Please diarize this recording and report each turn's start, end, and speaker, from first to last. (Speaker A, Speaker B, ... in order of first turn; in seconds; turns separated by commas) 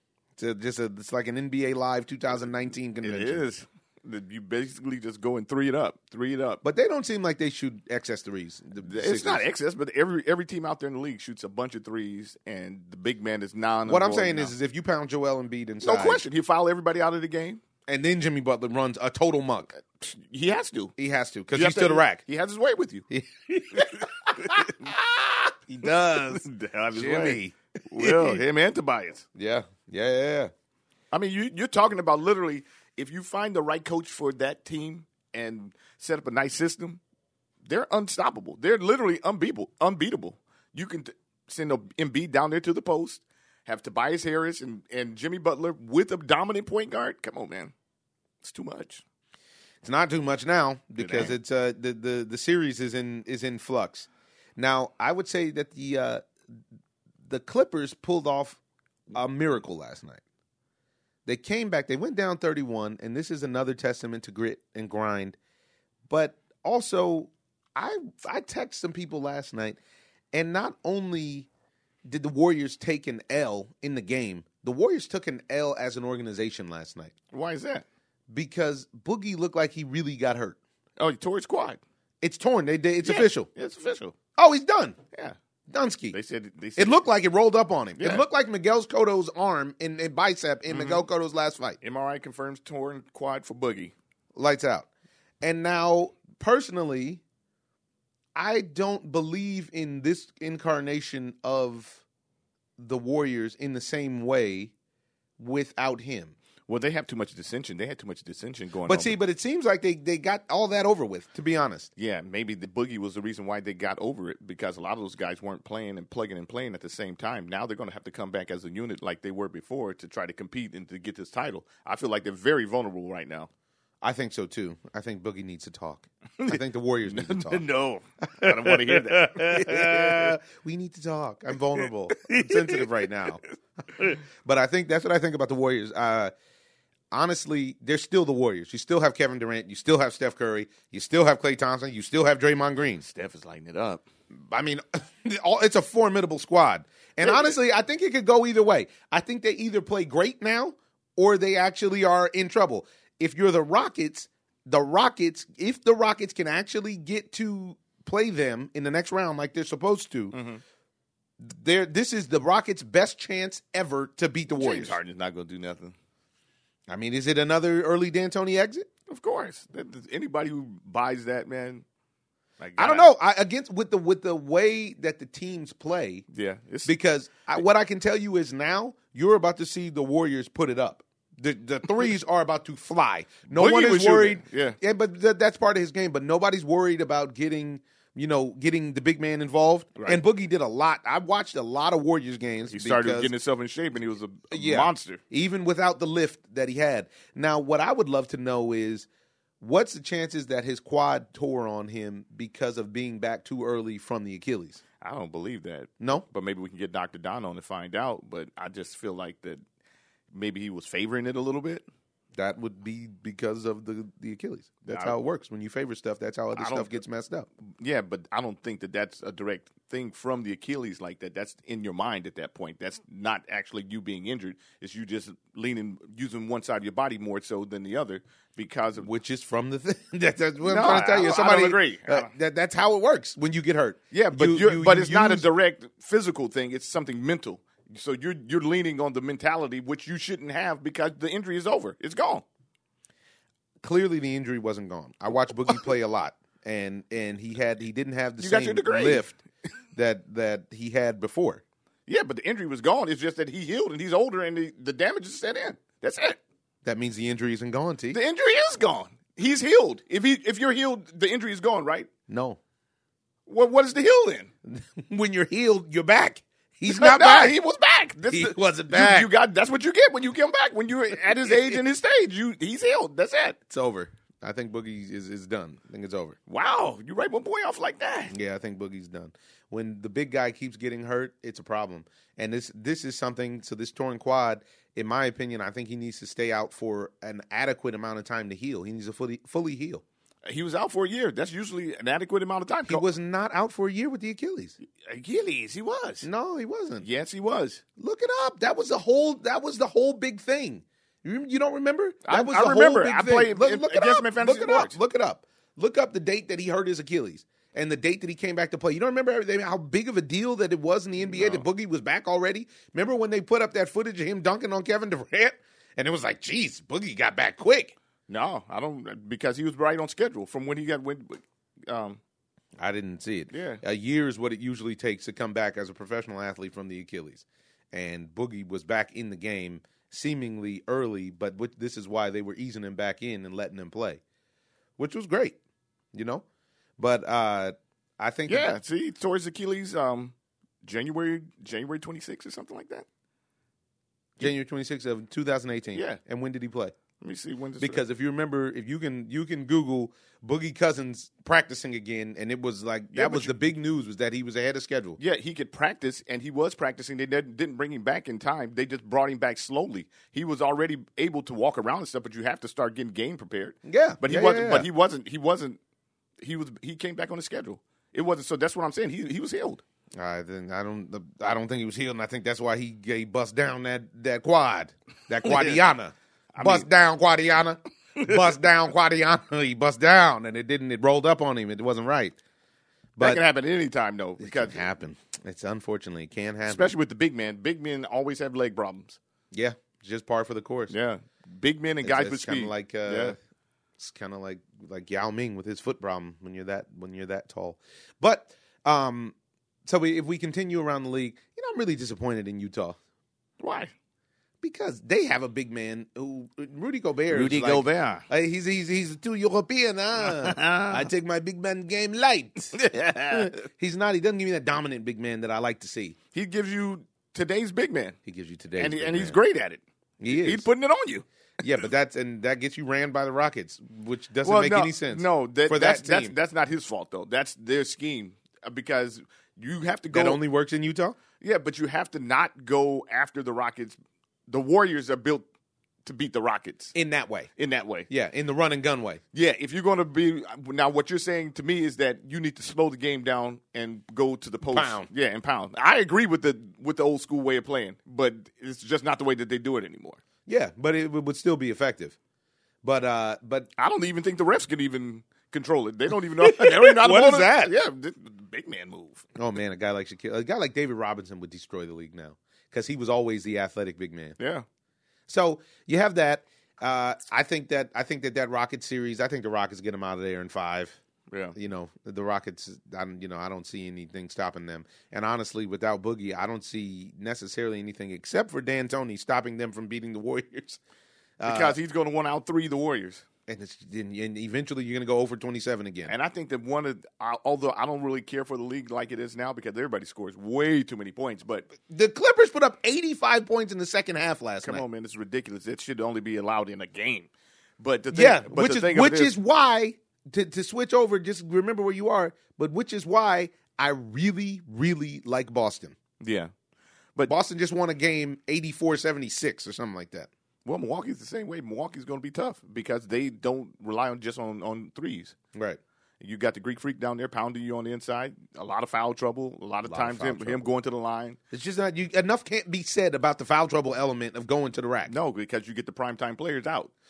Speaker A: 0.4-3.4, Speaker B: 3.0-6.6, Speaker A: 6.6-9.4, Speaker B: 8.8-14.5, Speaker A: 13.9-16.2, Speaker B: 15.8-17.6, Speaker A: 17.9-19.8, Speaker B: 19.8-20.9, Speaker A: 21.0-22.2, Speaker B: 21.5-23.1, Speaker A: 23.1-28.4, Speaker B: 23.8-24.9, Speaker B: 26.3-29.2, Speaker A: 29.4-30.5, Speaker B: 31.1-37.0, Speaker B: 37.6-47.7, Speaker B: 48.4-49.0, Speaker A: 49.8-56.2, Speaker B: 51.0-51.3, Speaker A: 57.2-58.6, Speaker A: 59.1-60.2, Speaker A: 61.2-65.4, Speaker A: 66.1-69.8, Speaker A: 70.3-71.5, Speaker A: 72.0-77.1, Speaker B: 77.3-77.8, Speaker A: 78.3-80.6, Speaker B: 81.0-81.8, Speaker A: 82.2-83.5, Speaker B: 83.0-84.1, Speaker A: 84.4-85.0, Speaker A: 85.7-86.2, Speaker B: 86.1-87.0, Speaker A: 86.8-91.8, Speaker B: 88.0-88.2, Speaker B: 90.7-91.0, Speaker B: 91.8-93.9, Speaker A: 94.3-94.9, Speaker A: 95.4-97.2, Speaker A: 98.3-102.0, Speaker A: 102.8-104.7, Speaker A: 105.4-106.4, Speaker B: 106.7-109.2, Speaker A: 108.9-111.9, Speaker B: 112.0-123.5, Speaker A: 124.0-127.6, Speaker B: 126.4-130.3, Speaker A: 128.4-133.4, Speaker B: 131.8-133.1, Speaker A: 134.0-136.3, Speaker A: 137.1-143.0, Speaker B: 143.0-144.0, Speaker A: 144.3-160.3, Speaker B: 147.2-147.5, Speaker B: 160.3-160.6, Speaker A: 161.4-165.0, Speaker B: 164.6-165.9, Speaker A: 166.9-168.9, Speaker B: 169.1-171.8, Speaker B: 172.6-173.1, Speaker A: 172.8-176.2, Speaker B: 176.3-176.9, Speaker A: 176.8-193.3, Speaker B: 183.5-184.8, Speaker B: 190.0-190.2, Speaker B: 192.7-195.2, Speaker A: 194.5-199.1, Speaker A: 199.6-204.8, Speaker B: 205.0-209.6, Speaker A: 206.0-206.2, Speaker B: 210.3-211.8, Speaker A: 212.3-217.5, Speaker B: 214.9-215.2, Speaker B: 216.5-216.9, Speaker B: 217.8-229.1, Speaker A: 229.0-235.5, Speaker B: 230.6-232.3, Speaker B: 234.1-242.4, Speaker A: 243.8-249.4, Speaker B: 248.4-249.2, Speaker A: 249.9-251.6, Speaker B: 252.1-256.4, Speaker A: 256.8-258.2, Speaker B: 258.1-262.1, Speaker A: 262.3-262.6, Speaker B: 263.5-264.5, Speaker A: 264.7-267.6, Speaker B: 266.9-273.6, Speaker A: 268.3-269.3, Speaker A: 271.5-271.8, Speaker A: 273.7-276.4, Speaker B: 276.5-278.3, Speaker A: 278.3-290.0, Speaker B: 290.4-293.1, Speaker A: 292.9-294.8, Speaker B: 295.0-296.3, Speaker A: 296.2-297.1, Speaker B: 297.0-297.8, Speaker A: 298.0-317.9, Speaker B: 302.2-305.0, Speaker B: 311.3-311.6, Speaker B: 318.3-322.2, Speaker A: 322.8-334.2, Speaker B: 323.5-323.8, Speaker A: 335.0-335.6, Speaker A: 336.1-336.4, Speaker A: 337.0-338.7, Speaker B: 338.5-343.1, Speaker A: 344.4-346.9, Speaker B: 345.9-346.2, Speaker B: 347.2-348.0, Speaker A: 347.8-355.2, Speaker B: 353.1-353.5, Speaker B: 355.2-365.8, Speaker A: 363.8-364.9, Speaker B: 366.4-369.8, Speaker A: 370.1-382.4, Speaker B: 375.4-375.8, Speaker B: 376.5-376.9, Speaker A: 383.2-383.4, Speaker B: 383.2-384.9, Speaker A: 384.4-386.9, Speaker B: 386.7-389.2, Speaker A: 389.5-390.9, Speaker B: 390.9-393.4, Speaker A: 392.0-393.4, Speaker A: 394.0-399.3, Speaker A: 399.9-403.0, Speaker B: 403.6-403.9, Speaker A: 404.6-416.2, Speaker B: 407.3-408.2, Speaker B: 410.2-411.1, Speaker B: 412.7-413.5, Speaker B: 416.3-418.2, Speaker A: 418.2-419.4, Speaker B: 418.8-421.2, Speaker A: 420.2-420.7, Speaker A: 421.6-426.3, Speaker B: 424.4-430.4, Speaker A: 430.1-431.2, Speaker B: 431.4-434.0, Speaker B: 434.5-435.5, Speaker B: 436.0-436.9, Speaker A: 436.9-437.5, Speaker B: 437.6-438.1, Speaker A: 438.1-439.2, Speaker B: 439.3-450.2, Speaker A: 444.7-445.1, Speaker A: 450.5-452.2, Speaker A: 452.8-453.7, Speaker B: 453.8-459.3, Speaker A: 456.4-457.7, Speaker A: 459.4-464.4, Speaker B: 464.4-464.6, Speaker A: 465.3-471.0, Speaker B: 471.3-471.6, Speaker A: 471.5-480.8, Speaker A: 481.4-481.8, Speaker B: 481.4-483.2, Speaker A: 483.5-486.1, Speaker B: 486.1-491.7, Speaker A: 491.8-494.8, Speaker B: 494.6-499.3, Speaker A: 498.1-506.0, Speaker B: 506.2-506.5, Speaker A: 507.3-510.3, Speaker B: 510.6-515.3, Speaker A: 515.5-515.8, Speaker B: 516.2-521.4, Speaker A: 519.9-520.6, Speaker A: 521.5-525.1, Speaker B: 525.1-526.9